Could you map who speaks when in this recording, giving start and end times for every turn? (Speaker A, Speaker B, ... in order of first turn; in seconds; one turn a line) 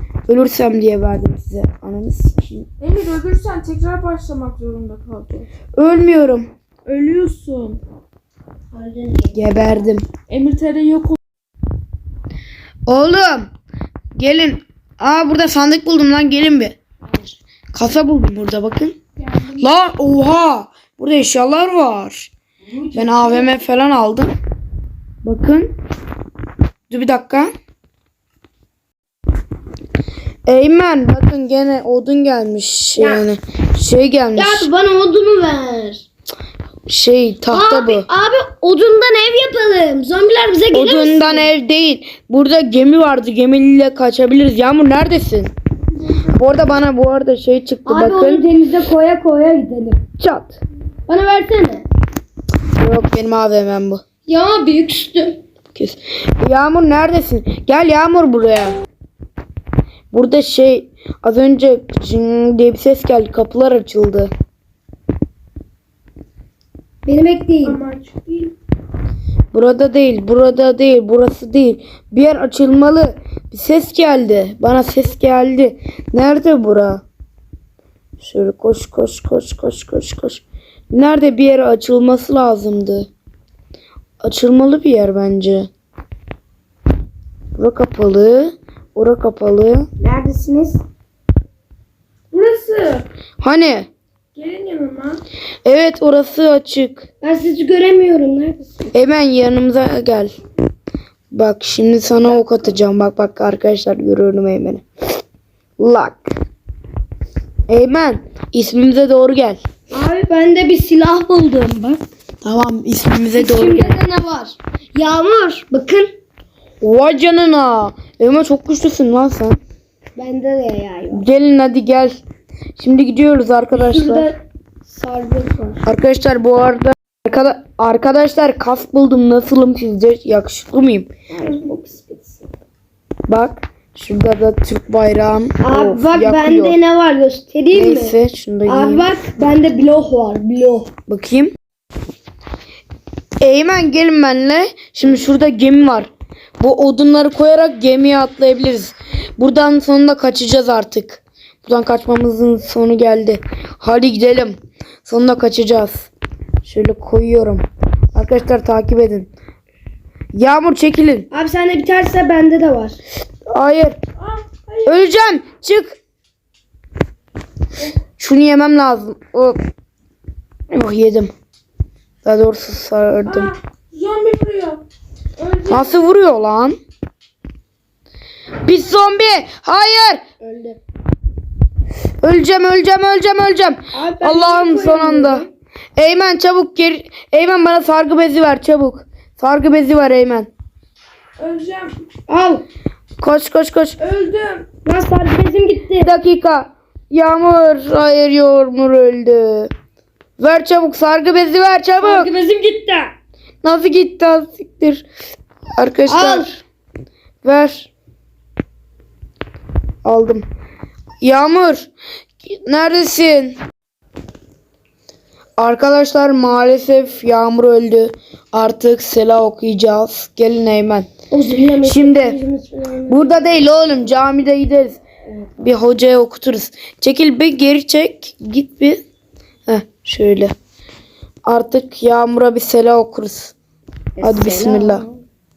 Speaker A: 0.3-2.7
Speaker B: 2.8-5.5
Speaker A: 5.8-6.5
Speaker B: 6.8-7.8
Speaker C: 8.7-9.8
Speaker A: 9.3-10.1
Speaker B: 10.3-11.2
Speaker A: 12.9-13.5
Speaker A: 14.1-16.8
Speaker A: 17.7-18.9
Speaker B: 19.2-19.6
Speaker A: 19.6-22.3
Speaker C: 22.6-23.5
Speaker A: 22.9-24.3
Speaker A: 25.2-25.7
Speaker A: 26.9-27.5
Speaker A: 30.5-34.7
Speaker C: 33.0-33.2
Speaker C: 34.3-36.0
Speaker A: 36.9-38.1
Speaker C: 37.5-41.5
Speaker A: 40.7-45.5
Speaker A: 46.2-48.5
Speaker C: 47.9-50.0
Speaker A: 50.2-50.6
Speaker C: 51.1-51.8
Speaker A: 52.8-54.0
Speaker C: 54.2-55.4
Speaker A: 55.7-58.8
Speaker A: 60.1-64.3
Speaker C: 67.0-67.8
Speaker B: 67.6-68.5
Speaker A: 69.5-77.0
Speaker A: 78.2-83.1
Speaker A: 84.2-85.7
Speaker A: 87.5-89.9
Speaker C: 90.0-90.8
Speaker B: 92.3-93.1
Speaker A: 93.4-93.9
Speaker B: 94.3-95.2
Speaker A: 95.6-97.0
Speaker C: 97.2-98.9
Speaker A: 98.9-100.3
Speaker A: 101.3-104.8
Speaker A: 105.8-106.3
Speaker A: 107.7-109.6
Speaker C: 109.9-112.0
Speaker A: 112.4-114.0
Speaker C: 113.3-116.1
Speaker A: 116.8-119.6
Speaker C: 120.2-121.2
Speaker A: 121.1-122.2
Speaker A: 122.8-124.3
Speaker C: 123.7-125.8
Speaker A: 125.8-131.1
Speaker C: 131.3-132.4
Speaker A: 133.3-136.8
Speaker C: 135.6-140.9
Speaker A: 137.7-139.1
Speaker A: 141.1-141.5
Speaker A: 143.4-156.1
Speaker A: 156.6-159.3
Speaker A: 160.3-161.3
Speaker C: 161.3-163.0
Speaker A: 163.5-164.0
Speaker B: 164.2-165.1
Speaker A: 164.8-166.0
Speaker A: 168.2-169.6
Speaker A: 170.7-171.3
Speaker A: 172.2-173.5
Speaker B: 173.2-174.8
Speaker B: 175.4-176.0
Speaker A: 175.7-176.8
Speaker A: 178.6-180.2
Speaker C: 180.4-180.8
Speaker A: 182.2-185.4
Speaker C: 183.9-185.5
Speaker A: 186.0-190.5
Speaker B: 191.4-192.0
Speaker C: 192.3-192.6
Speaker A: 193.2-194.0
Speaker B: 194.0-194.7
Speaker C: 194.8-196.1
Speaker A: 196.0-199.7
Speaker A: 200.4-202.3
Speaker C: 202.0-203.1
Speaker A: 203.6-205.1
Speaker A: 205.8-206.6
Speaker C: 206.1-206.5
Speaker A: 207.4-207.9
Speaker A: 210.0-210.4
Speaker A: 211.2-211.9
Speaker A: 212.4-213.6
Speaker A: 215.6-221.1
Speaker C: 221.3-223.7
Speaker A: 221.8-222.4
Speaker A: 223.1-225.0
Speaker A: 225.6-229.0
Speaker A: 229.7-230.5
Speaker A: 231.4-233.5
Speaker C: 234.2-235.2
Speaker A: 234.2-235.0